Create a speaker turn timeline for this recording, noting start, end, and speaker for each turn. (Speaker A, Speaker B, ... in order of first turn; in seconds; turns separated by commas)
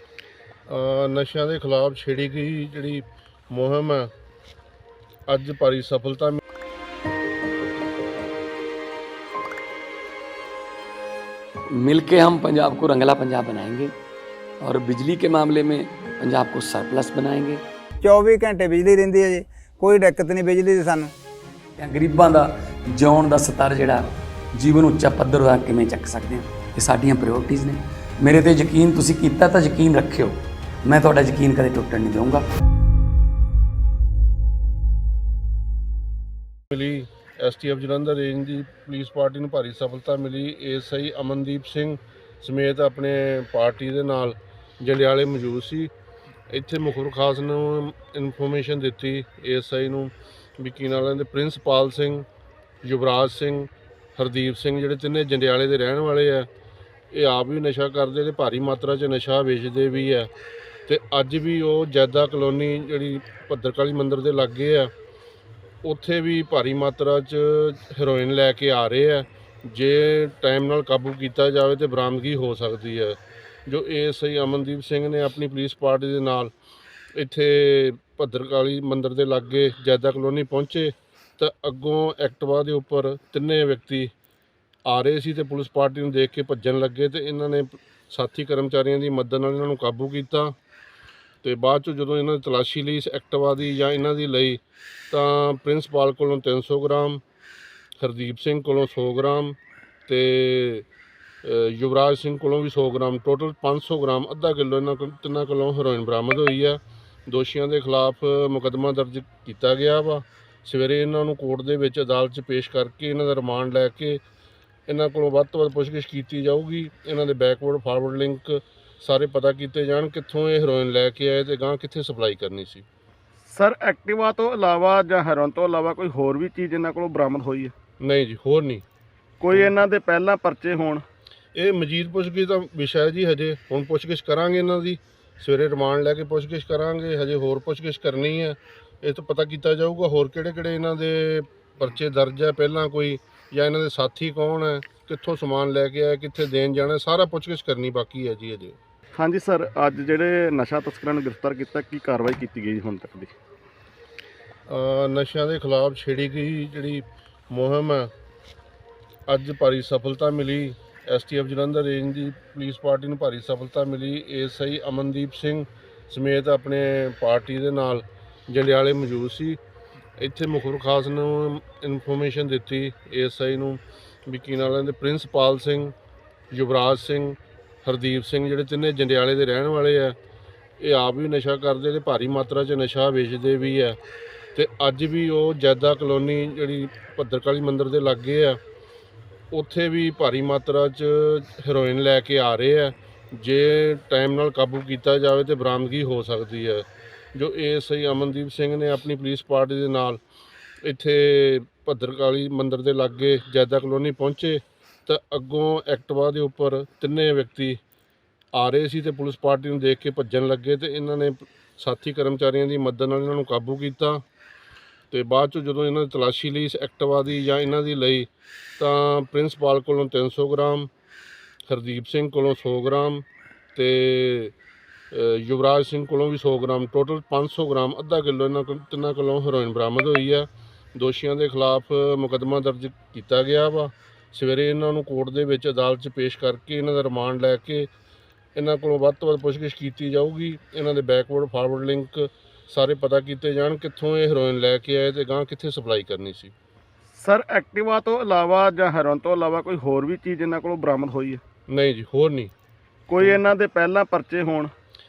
Speaker A: 0.7-4.1, Speaker A: 5.3-6.4, Speaker B: 11.7-13.9, Speaker B: 14.6-17.6, Speaker C: 18.0-21.1, Speaker B: 21.8-32.5, Speaker A: 36.7-45.9, Speaker A: 46.5-52.3, Speaker A: 52.8-56.5, Speaker A: 57.1-60.3, Speaker A: 60.9-64.9, Speaker A: 65.8-76.5, Speaker A: 77.2-84.1, Speaker A: 84.9-90.5, Speaker A: 91.4-97.2, Speaker A: 98.0-99.6, Speaker A: 100.1-100.9, Speaker A: 101.4-114.2, Speaker A: 114.9-122.8, Speaker D: 123.5-127.7, Speaker A: 128.0-128.8, Speaker D: 129.4-131.0, Speaker A: 131.6-148.8, Speaker D: 149.2-153.3, Speaker A: 154.7-158.1, Speaker A: 159.3-169.6, Speaker A: 170.2-175.9, Speaker A: 176.5-180.2, Speaker A: 180.8-184.0, Speaker A: 184.6-188.6, Speaker A: 189.5-200.2, Speaker A: 200.8-207.8, Speaker A: 208.6-214.2, Speaker A: 215.1-220.9, Speaker A: 221.7-223.2, Speaker A: 223.8-224.6, Speaker A: 225.1-237.9, Speaker A: 238.6-246.5, Speaker D: 247.2-251.4, Speaker A: 251.7-252.5, Speaker D: 253.1-254.7